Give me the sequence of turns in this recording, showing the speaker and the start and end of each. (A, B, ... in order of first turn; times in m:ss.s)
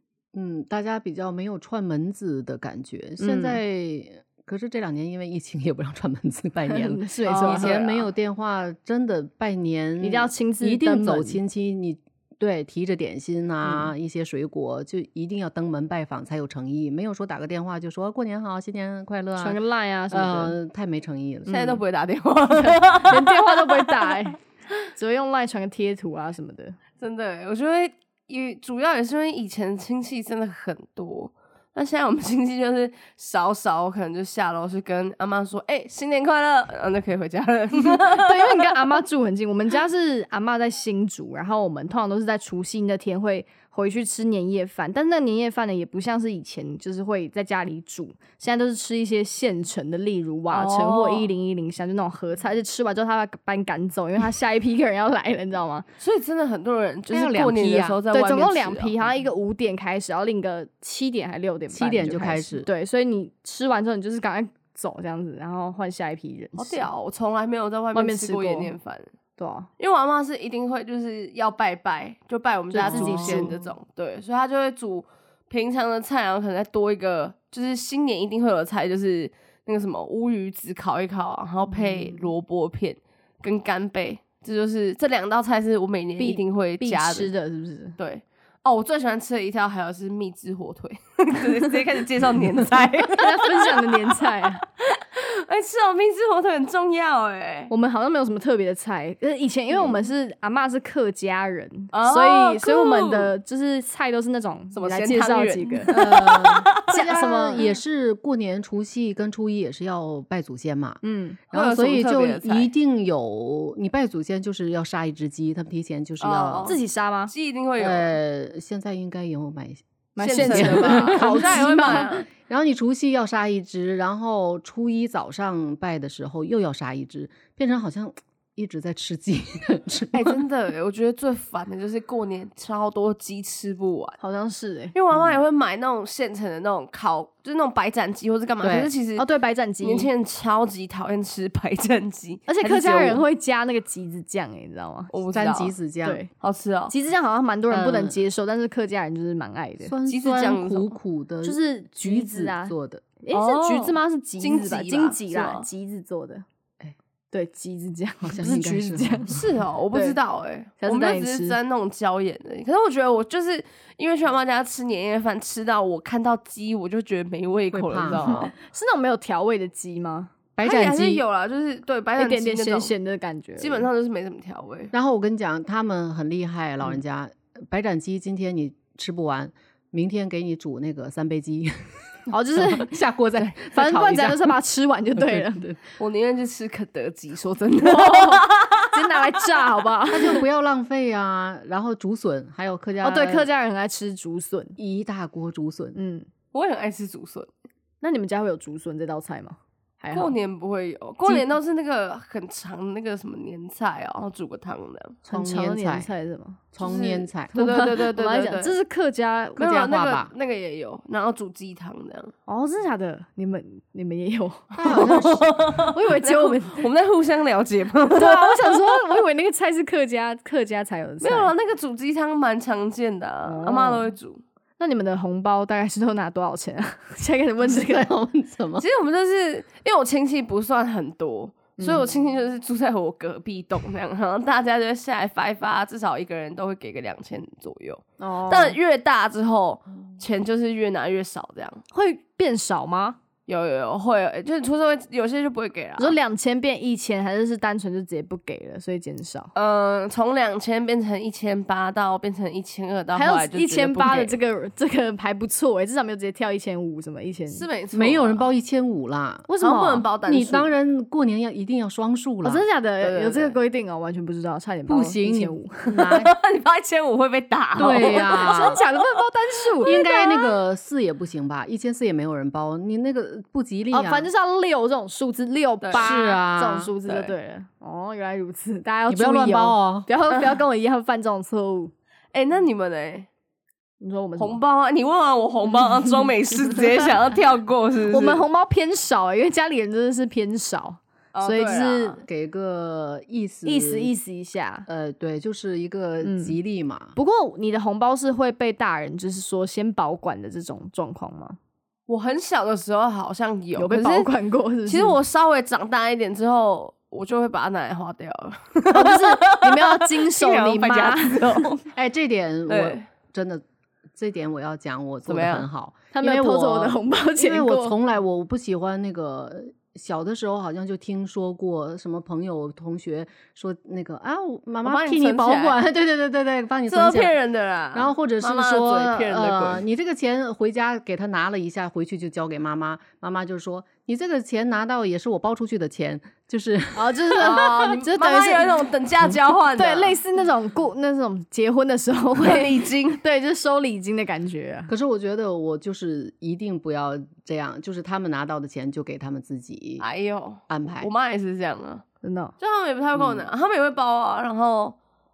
0:00.3-0:19.6 A
0:03.2-0:03.6 B
0:06.7-0:07.8 B
0:07.3-0:08.0 C
0:10.0-0:11.4 B
0:13.6-0:13.9 B
0:19.4-0:20.5 B
0:20.1-0:21.8 A
0:21.5-0:23.8 C
0:22.5-0:24.4 B
0:24.9-0:26.8 B
0:27.0-0:38.8 C
0:37.8-0:55.8 B
0:50.5-0:51.3 C
0:56.0-0:59.0 C
0:57.1-0:58.0 A
0:58.1-1:06.9 B
1:01.7-1:02.7 A
1:06.6-1:09.1 C
1:07.9-1:08.7 B
1:09.4-1:09.7 B
1:09.8-1:27.3 C
1:12.7-1:13.6 B
1:12.9-1:13.5 A
1:21.7-1:22.2 B
1:26.2-1:28.0 B
1:28.0-1:34.0 C
1:33.1-1:34.6 B
1:34.6-1:37.7 C
1:37.7-1:46.1 B
1:41.9-1:43.3 C
1:44.7-1:46.8 C
1:45.9-1:51.0 A
1:46.8-1:47.7 B
1:51.0-1:51.4 B
1:51.5-1:56.8 A
1:51.5-1:52.7 C
1:56.2-1:58.2 C
1:56.6-1:57.3 B
1:57.8-2:10.4 A
2:00.2-2:02.2 B
2:00.2-2:02.3 C
2:10.1-2:14.2 C
2:14.2-2:14.9 B
2:14.9-2:19.2 C
2:15.1-2:15.4 A
2:18.6-2:18.9 A
2:19.2-2:20.1 B
2:19.8-2:23.2 C
2:22.5-2:25.1 B
2:25.1-2:25.7 C
2:25.3-2:26.2 A
2:26.4-2:26.9 C
2:26.9-2:29.9 B
2:27.7-2:28.2 A
2:29.8-2:33.0 A
2:30.1-2:30.9 C
2:31.4-2:36.4 B
2:33.3-2:35.7 C
2:37.3-2:39.4 B
2:38.2-2:39.4 A
2:39.3-2:48.5 C
2:39.9-2:40.2 B
2:40.8-2:41.6 B
2:47.7-2:48.5 A
2:48.2-2:50.3 B
2:50.6-2:51.2 A
2:50.6-2:52.9 C
2:52.2-2:53.9 B
2:53.6-2:54.9 C
2:54.9-3:01.9 A
3:02.3-3:05.6 B
3:02.6-3:04.6 A
3:05.1-3:05.8 A
3:06.0-3:09.2 C
3:07.8-3:10.4 B
3:10.1-3:13.5 A
3:13.0-3:14.8 B
3:14.8-3:16.0 A
3:15.9-3:16.3 B
3:16.5-3:17.5 C
3:18.0-3:20.3 B
3:20.1-3:25.2 C
3:25.2-3:26.1 A
3:25.3-3:26.6 B
3:26.7-3:27.5 A
3:26.8-3:28.7 C
3:27.5-3:29.8 B
3:29.6-3:32.3 C
3:29.6-3:30.3 A
3:32.5-3:35.1 B
3:34.7-3:35.8 A
3:34.8-3:38.8 C
3:35.9-3:36.8 B
3:38.1-3:41.5 B
3:41.2-3:44.4 C
3:43.4-3:44.1 B
3:44.8-3:48.1 B
3:47.6-3:48.8 A
3:48.8-4:01.8 C
3:51.8-3:52.0 B
3:58.2-3:58.8 B
4:01.9-4:03.2 B
4:03.5-4:06.2 C
4:06.0-4:09.5 B
4:09.5-4:14.4 C
4:13.1-4:17.6 B
4:17.5-4:18.5 C
4:17.9-4:19.5 A
4:19.5-4:20.0 B
4:19.6-4:20.7 C
4:20.2-4:22.6 A
4:22.4-4:26.0 B
4:23.0-4:23.6 C
4:24.9-4:26.3 A
4:25.9-4:28.8 C
4:27.8-4:28.8 A
4:27.8-4:30.5 B
4:29.8-4:34.3 A
4:33.9-4:41.9 B
4:35.8-4:36.1 C
4:35.9-4:36.9 A
4:37.0-4:37.3 C
4:39.1-4:40.1 A
4:42.3-4:43.3 C
4:44.0-4:44.6 B
4:44.4-4:48.4 C
4:48.1-4:52.2 B
4:51.3-4:52.2 C
4:52.2-4:54.1 A
4:53.6-4:54.9 B
4:54.9-4:57.2 A
4:56.2-4:56.5 B
4:57.2-5:01.6 B
5:02.1-5:04.3 C
5:03.7-5:05.2 B
5:04.8-5:11.8 C
5:08.9-5:11.7 B
5:11.9-5:13.6 A
5:12.7-5:13.0 C
5:14.1-5:27.3 A
5:15.3-5:15.6 C
5:16.1-5:18.0 B
5:24.8-5:25.8 C
5:26.9-5:29.8 C
5:27.9-5:37.6 A
5:36.9-5:38.8 B
5:37.4-5:40.2 C
5:39.8-5:44.9 B
5:42.4-5:43.2 C
5:44.9-5:50.0 A
5:50.0-5:52.0 C
5:50.7-5:51.1 A
5:52.2-5:52.5 B
5:52.6-5:55.0 C
5:53.2-5:53.4 A